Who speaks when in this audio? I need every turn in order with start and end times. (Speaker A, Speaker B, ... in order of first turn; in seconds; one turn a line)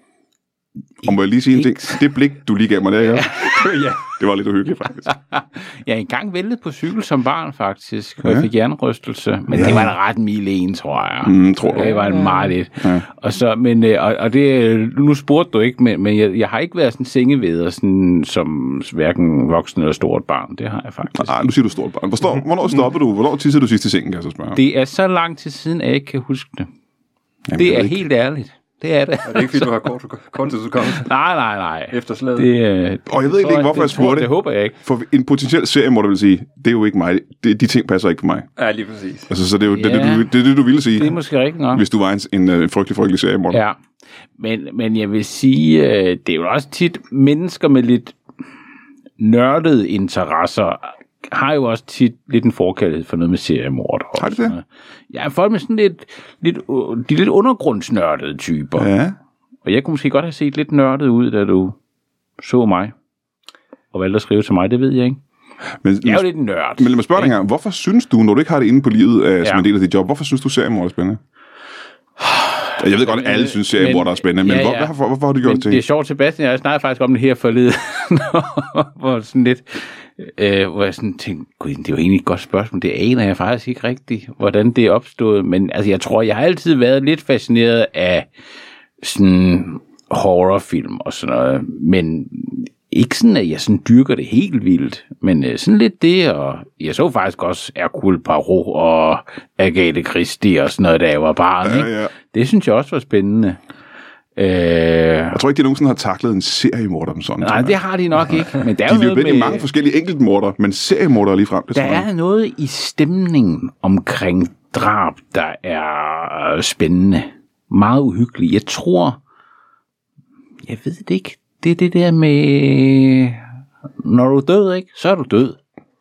Speaker A: 1.0-2.0
Speaker B: 1.0-3.4
Speaker A: 3.2-3.5
Speaker C: 3.4-4.0
Speaker B: 4.1-5.1
Speaker A: 5.3-21.5
Speaker B: 9.5-9.9
Speaker B: 11.2-12.0
Speaker C: 11.9-12.5
Speaker B: 21.1-24.6
Speaker A: 24.5-26.7
Speaker B: 27.5-28.0
Speaker A: 27.6-29.7
Speaker C: 29.2-31.1
Speaker A: 30.9-34.8
Speaker C: 31.9-32.5
Speaker B: 33.1-38.5
Speaker C: 38.6-39.3
Speaker B: 39.3-41.2
Speaker A: 39.7-40.3
Speaker A: 41.0-41.8
Speaker B: 41.7-43.6
Speaker A: 43.5-43.8
Speaker A: 44.4-48.2
Speaker A: 49.2-58.9
Speaker B: 54.2-54.6
Speaker B: 58.8-59.2
Speaker A: 59.6-61.8
Speaker A: 62.4-62.9
Speaker A: 63.9-65.2
Speaker B: 65.8-71.2
Speaker A: 66.0-67.3
Speaker A: 72.2-88.3
Speaker B: 72.8-75.8
Speaker A: 89.0-103.6
Speaker B: 101.6-102.1
Speaker A: 104.4-105.4
Speaker B: 105.3-112.1
Speaker A: 107.4-109.7
Speaker A: 111.7-119.2
Speaker A: 120.6-123.5
Speaker A: 124.0-125.6